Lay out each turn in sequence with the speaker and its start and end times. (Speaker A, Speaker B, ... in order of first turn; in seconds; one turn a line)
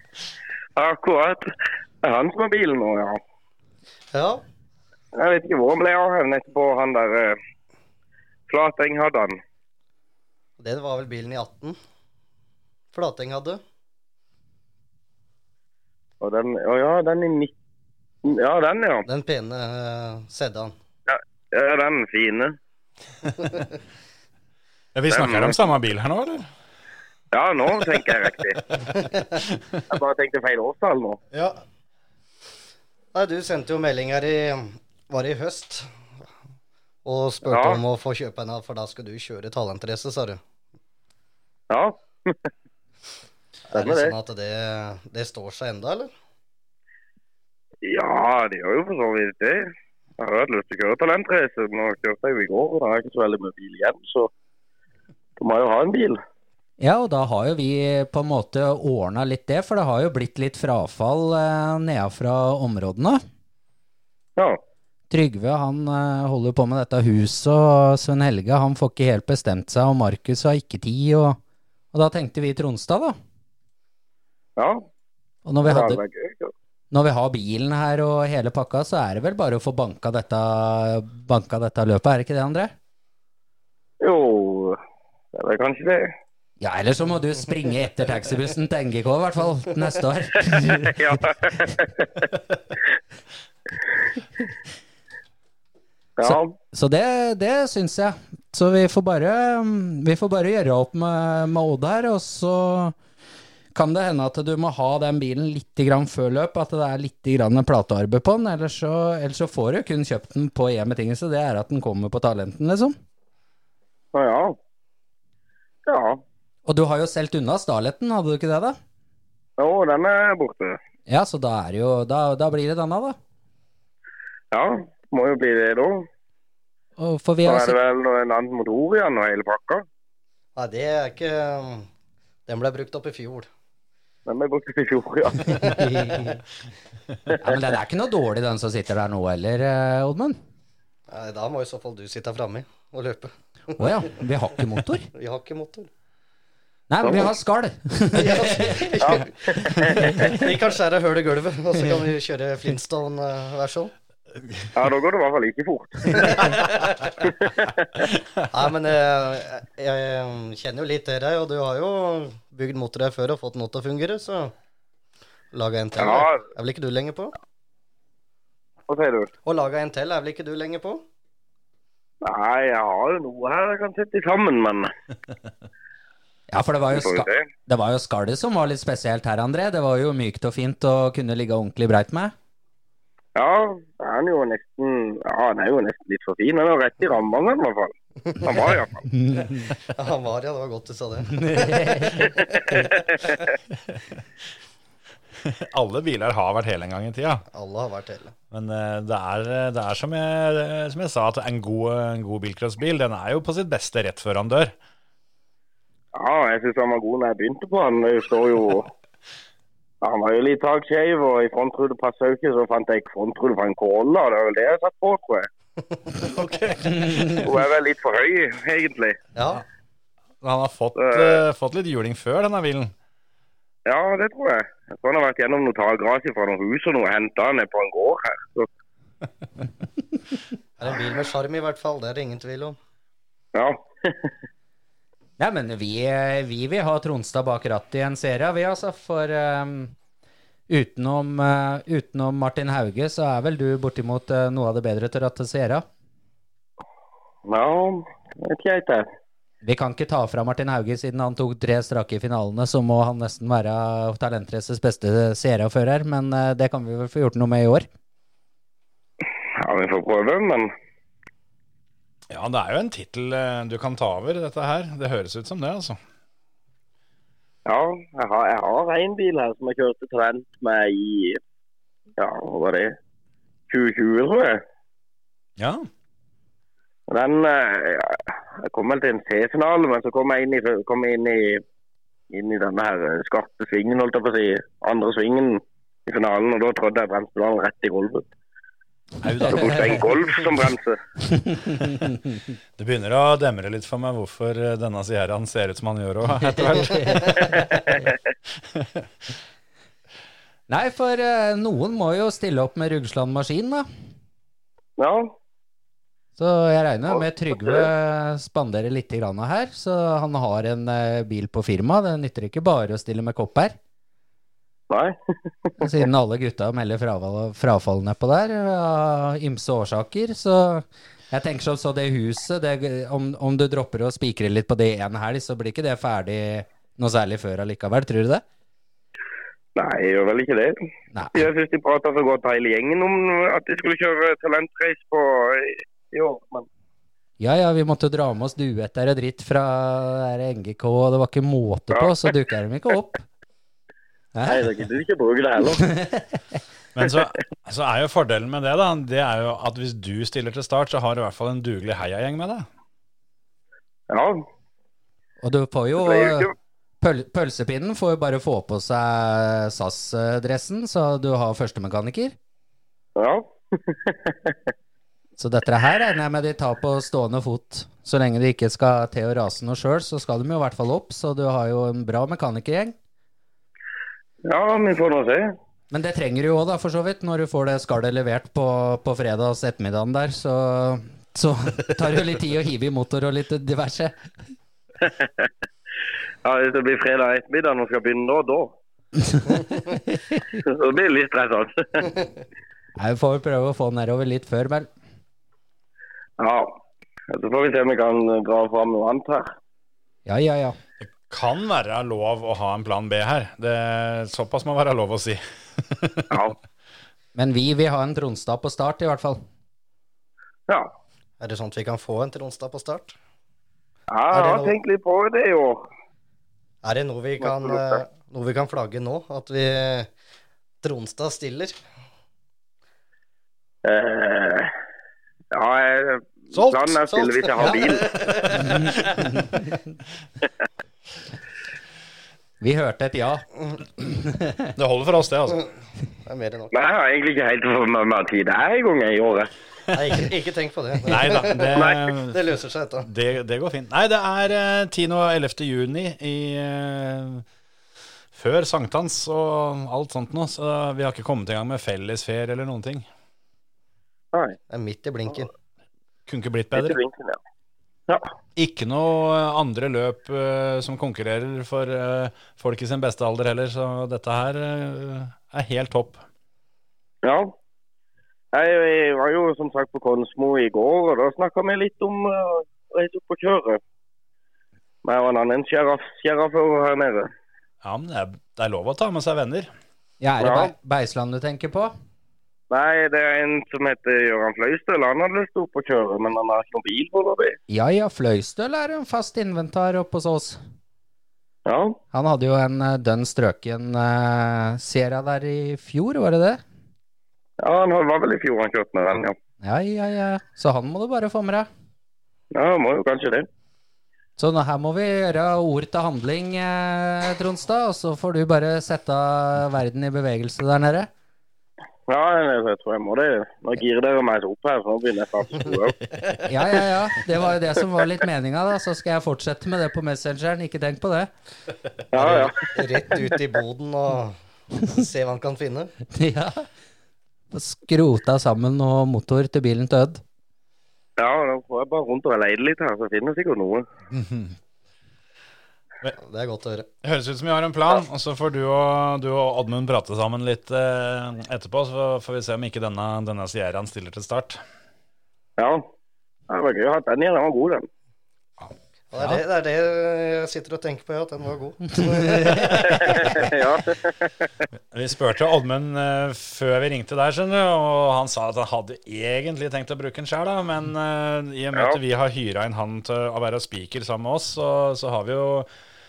Speaker A: 0.8-1.5
Speaker A: 2.0-3.2
Speaker B: 4.1-4.4
Speaker A: 5.1-7.4
Speaker A: 8.5-9.4
Speaker B: 10.6-11.8
Speaker B: 12.9-13.6
Speaker A: 16.2-17.5
Speaker A: 18.2-19.1
Speaker B: 19.1-20.7
Speaker A: 21.1-22.6
Speaker B: 23.4-23.6
Speaker C: 24.9-26.5
Speaker A: 25.1-25.6
Speaker A: 27.3-28.8
Speaker B: 28.9-29.2
Speaker A: 29.9-31.2
Speaker B: 33.1-35.9
Speaker B: 37.0-40.4
Speaker A: 37.5-37.8
Speaker A: 41.7-42.4
Speaker B: 43.7-46.1
Speaker A: 43.7-44.1
Speaker A: 47.8-54.3
Speaker A: 55.4-56.2
Speaker D: 56.8-63.2
Speaker D: 65.1-71.4
Speaker D: 71.9-73.2
Speaker A: 74.6-74.8
Speaker D: 75.5-76.0
Speaker A: 75.6-76.5
Speaker D: 76.9-82.7
Speaker A: 84.0-84.8
Speaker A: 85.3-86.1
Speaker D: 86.6-91.0
Speaker A: 90.8-92.1
Speaker A: 96.2-96.5
Speaker D: 96.3-102.9
Speaker D: 103.7-113.0
Speaker A: 114.1-114.6
Speaker A: 115.8-116.2
Speaker D: 116.7-118.8
Speaker A: 119.6-120.8
Speaker D: 121.1-123.2
Speaker A: 124.5-126.1
Speaker D: 127.0-127.8
Speaker A: 127.4-129.8
Speaker B: 130.6-131.9
Speaker B: 132.5-133.5
Speaker A: 134.3-135.8
Speaker D: 135.6-136.4
Speaker D: 137.4-140.4
Speaker B: 141.1-144.1
Speaker D: 143.8-145.1
Speaker B: 145.1-145.9
Speaker D: 146.9-148.9
Speaker B: 148.1-153.9
Speaker A: 149.0-150.3
Speaker A: 154.7-156.6
Speaker B: 156.1-157.1
Speaker A: 157.2-157.7
Speaker B: 158.5-164.5
Speaker B: 165.5-167.3
Speaker A: 166.0-166.4
Speaker A: 168.9-169.3
Speaker B: 169.4-171.0
Speaker A: 172.2-174.9
Speaker D: 176.5-182.3
Speaker A: 176.9-177.4
Speaker A: 183.3-189.0
Speaker D: 189.1-189.7
Speaker B: 189.8-193.1
Speaker D: 191.3-192.3
Speaker A: 192.2-193.5
Speaker C: 195.4-197.4
Speaker B: 197.5-198.3
Speaker C: 198.5-204.7
Speaker A: 206.1-208.9
Speaker A: 210.0-215.5
Speaker C: 216.5-217.0
Speaker A: 217.2-219.2
Speaker B: 219.3-219.6
Speaker C: 220.4-222.9
Speaker A: 221.0-221.4
Speaker A: 223.8-228.7
Speaker B: 230.8-232.8
Speaker A: 233.5-234.3
Speaker D: 235.4-239.9
Speaker D: 240.7-245.8
Speaker A: 247.4-249.1
Speaker D: 249.6-257.9
Speaker A: 259.6-260.7
Speaker C: 262.3-266.0
Speaker A: 267.6-271.4
Speaker A: 272.2-272.9
Speaker A: 273.7-274.6
Speaker C: 275.6-275.9
Speaker A: 277.1-281.6
Speaker A: 282.3-288.2
Speaker C: 289.2-290.2
Speaker D: 289.4-289.9
Speaker A: 289.4-291.0
Speaker D: 291.4-292.2
Speaker C: 292.8-297.7
Speaker D: 296.4-297.4
Speaker A: 297.4-298.0
Speaker D: 300.7-303.9
Speaker A: 305.0-305.3
Speaker D: 306.4-313.8
Speaker A: 307.2-307.8
Speaker A: 314.9-315.9
Speaker D: 315.8-328.4
Speaker A: 329.7-330.8
Speaker D: 331.1-331.4
Speaker A: 331.3-336.7
Speaker D: 337.4-343.2
Speaker D: 344.3-344.7
Speaker A: 344.4-345.9
Speaker D: 345.8-346.4
Speaker C: 346.9-352.6
Speaker A: 354.1-354.4
Speaker D: 355.4-356.5
Speaker A: 356.0-356.5
Speaker D: 357.0-362.3
Speaker A: 363.1-364.6
Speaker D: 365.4-372.9
Speaker A: 374.4-375.5
Speaker D: 375.9-384.1
Speaker A: 385.0-385.5
Speaker A: 386.4-388.7
Speaker A: 390.5-392.2
Speaker D: 393.0-394.9
Speaker A: 396.4-399.5
Speaker D: 400.2-400.8
Speaker C: 401.0-406.2
Speaker A: 406.3-406.6
Speaker D: 407.3-409.4
Speaker B: 411.4-413.1
Speaker A: 414.1-415.9
Speaker B: 414.3-414.8
Speaker B: 416.8-420.1
Speaker A: 417.4-418.0
Speaker B: 420.8-421.8
Speaker A: 423.8-424.7
Speaker A: 425.5-428.1
Speaker C: 426.6-426.8
Speaker B: 426.9-429.1
Speaker D: 432.6-433.4
Speaker D: 434.0-434.7
Speaker C: 434.8-435.7
Speaker B: 436.2-436.7
Speaker A: 436.7-439.5
Speaker B: 439.9-443.1
Speaker C: 441.1-442.4
Speaker C: 443.0-447.4
Speaker C: 448.3-453.1
Speaker A: 454.3-454.6
Speaker B: 454.7-455.5
Speaker C: 456.3-457.0
Speaker A: 456.7-457.4
Speaker C: 458.6-466.2
Speaker A: 467.2-467.5
Speaker A: 468.5-473.8
Speaker A: 475.0-477.3
Speaker C: 477.8-479.7
Speaker D: 480.2-481.9
Speaker A: 480.4-480.7
Speaker A: 482.7-487.6
Speaker D: 487.7-490.6
Speaker A: 491.6-492.0
Speaker D: 492.1-496.6
Speaker A: 497.6-499.3
Speaker D: 499.6-501.7
Speaker A: 502.5-503.5
Speaker D: 504.4-511.1
Speaker A: 512.1-516.1
Speaker D: 516.5-521.3
Speaker A: 522.1-523.3
Speaker B: 522.1-525.9
Speaker D: 526.1-526.7
Speaker D: 527.5-530.2
Speaker A: 531.2-533.9
Speaker C: 534.1-534.5
Speaker B: 536.1-536.9
Speaker C: 537.0-544.6
Speaker A: 545.6-545.9
Speaker A: 546.5-547.9
Speaker B: 549.1-553.4
Speaker A: 552.8-554.5
Speaker C: 554.9-565.7